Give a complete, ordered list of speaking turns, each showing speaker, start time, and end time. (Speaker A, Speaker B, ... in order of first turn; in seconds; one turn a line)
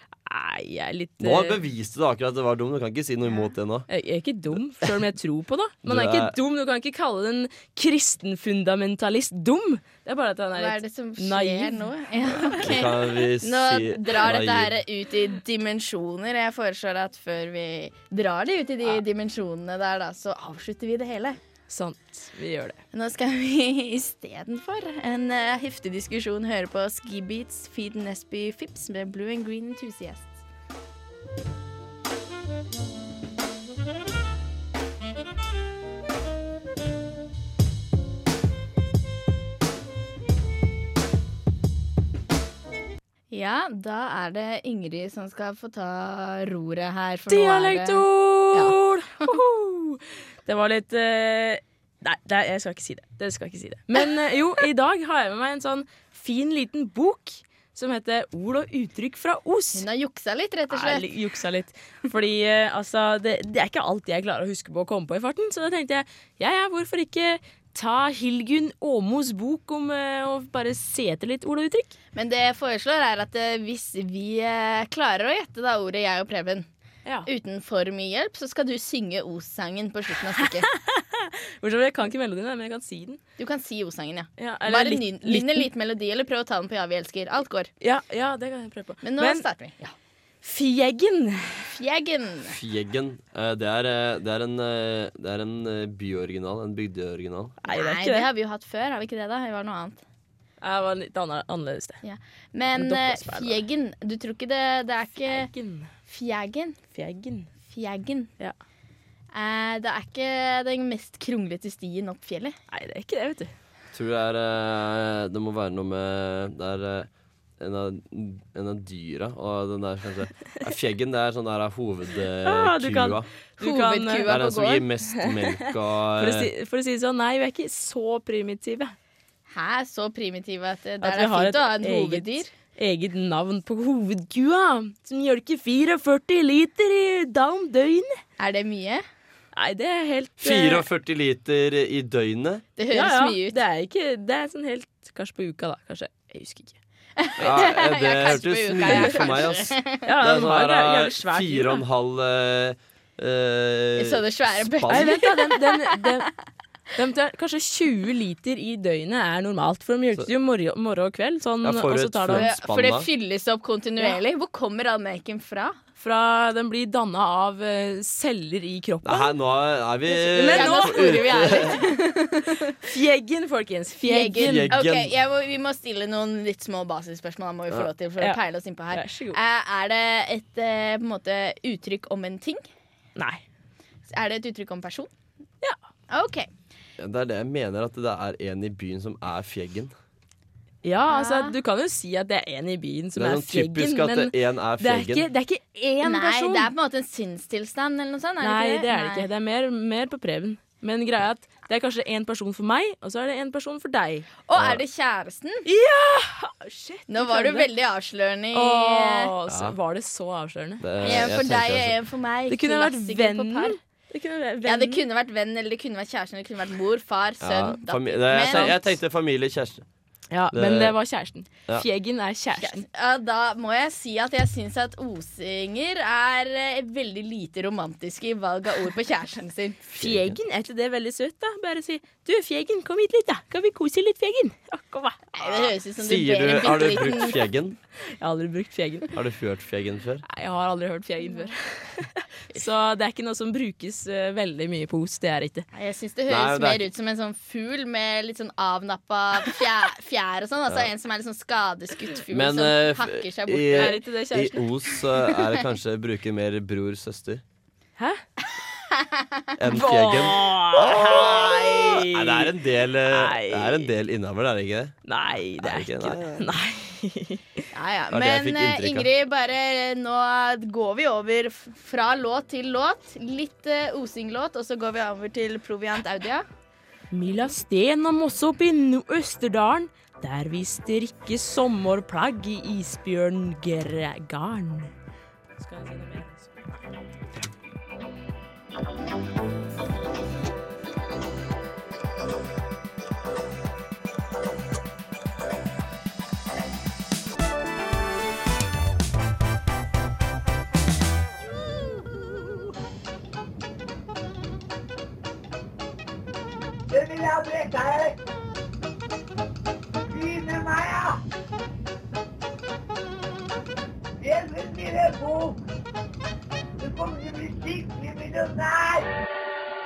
Speaker A: 0.2-1.6
Speaker B: 1.2-3.9
Speaker A: 3.9-12.6
Speaker B: 5.8-6.3
Speaker C: 10.6-21.4
Speaker B: 12.5-14.7
Speaker A: 21.7-22.8
Speaker C: 22.9-30.4
Speaker C: 43.3-49.4
Speaker A: 47.3-59.8
Speaker C: 59.7-61.1
Speaker A: 60.7-71.9
Speaker C: 72.1-76.7
Speaker C: 77.2-80.7
Speaker A: 80.4-83.2
Speaker C: 83.4-87.7
Speaker A: 84.4-85.7
Speaker A: 87.8-89.4
Speaker C: 89.0-89.9
Speaker A: 90.4-91.7
Speaker C: 91.7-92.5
Speaker B: 92.5-97.6
Speaker A: 97.6-98.3
Speaker C: 97.7-100.0
Speaker A: 100.6-102.0
Speaker C: 102.0-105.5
Speaker A: 102.7-103.6
Speaker A: 105.3-105.9
Speaker C: 106.1-106.8
Speaker A: 106.9-107.5
Speaker C: 107.7-108.3
Speaker C: 109.3-112.5
Speaker A: 112.7-113.5
Speaker B: 113.9-123.3
Speaker A: 122.4-124.4
Speaker C: 123.6-124.8
Speaker B: 124.2-126.5
Speaker A: 125.2-128.9
Speaker C: 129.5-132.5
Speaker A: 131.0-138.2
Speaker C: 138.4-139.0
Speaker A: 139.5-140.8
Speaker B: 140.4-142.6
Speaker C: 142.8-143.6
Speaker A: 142.9-146.8
Speaker C: 147.2-150.0
Speaker B: 147.4-155.2
Speaker A: 148.8-149.3
Speaker A: 150.0-151.8
Speaker C: 154.0-156.0
Speaker A: 154.9-156.3
Speaker A: 156.9-162.5
Speaker B: 161.6-163.1
Speaker C: 162.3-165.8
Speaker A: 166.0-169.3
Speaker B: 169.0-171.7
Speaker C: 170.2-172.6
Speaker A: 170.3-171.8
Speaker A: 172.8-174.7
Speaker C: 174.0-182.6
Speaker B: 174.4-175.1
Speaker A: 178.2-179.4
Speaker A: 183.2-183.4
Speaker C: 184.1-185.1
Speaker C: 186.1-186.5
Speaker B: 187.0-189.9
Speaker A: 190.8-196.7
Speaker C: 191.1-191.5
Speaker B: 193.2-195.3
Speaker C: 196.0-199.3
Speaker A: 198.4-204.3
Speaker C: 204.5-205.6
Speaker B: 204.5-204.8
Speaker A: 205.6-207.7
Speaker C: 207.1-209.3
Speaker A: 208.5-211.2
Speaker B: 209.5-209.8
Speaker B: 210.8-211.9
Speaker C: 211.0-213.8
Speaker A: 212.5-215.0
Speaker C: 214.6-218.9
Speaker B: 217.4-219.8
Speaker A: 218.5-218.8
Speaker A: 220.3-222.8
Speaker B: 220.5-220.9
Speaker C: 222.6-229.8
Speaker A: 229.9-235.6
Speaker B: 230.0-230.4
Speaker C: 235.3-237.4
Speaker B: 236.0-237.8
Speaker A: 238.2-239.1
Speaker B: 239.1-240.2
Speaker A: 240.3-245.7
Speaker C: 241.2-241.5
Speaker C: 245.7-254.0
Speaker B: 246.3-246.9
Speaker B: 252.3-257.4
Speaker A: 253.7-254.7
Speaker A: 258.0-258.2
Speaker C: 259.0-259.4
Speaker B: 259.6-265.0
Speaker A: 259.7-262.5
Speaker A: 263.1-263.9
Speaker A: 265.1-267.6
Speaker B: 265.6-266.4
Speaker C: 267.7-276.5
Speaker B: 268.1-269.1
Speaker A: 277.1-284.9
Speaker A: 285.6-286.9
Speaker D: 306.9-308.2
Speaker D: 310.1-311.2
Speaker D: 314.2-315.6
Speaker D: 316.8-319.1